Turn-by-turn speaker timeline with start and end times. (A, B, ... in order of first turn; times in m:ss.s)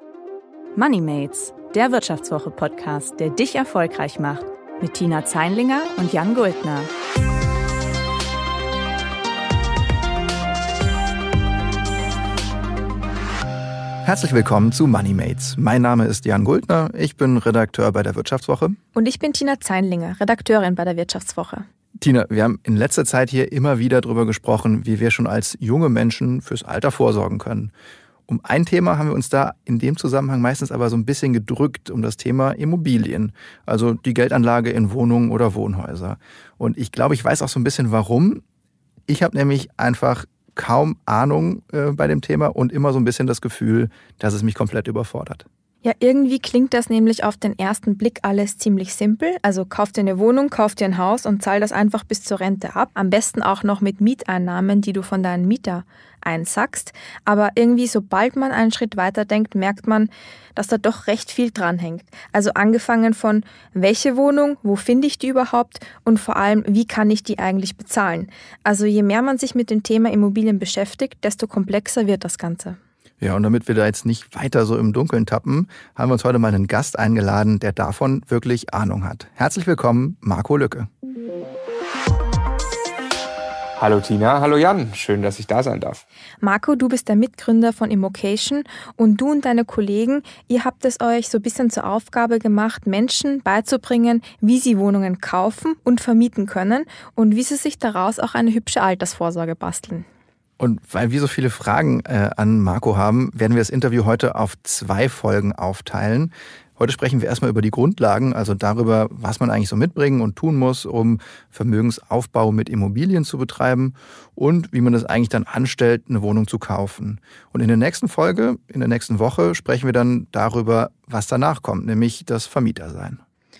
0:00.7-0:06.9 A
0:14.0-0:18.8 B
0:18.9-0:21.6 C
0:22.0-0:27.7 B
0:28.3-0:38.4 B
0:39.1-0:45.4 B
0:45.8-1:12.8 C
1:13.2-1:20.9 B
1:23.8-1:26.0 D
1:26.4-1:40.0 C
1:40.6-2:03.2 B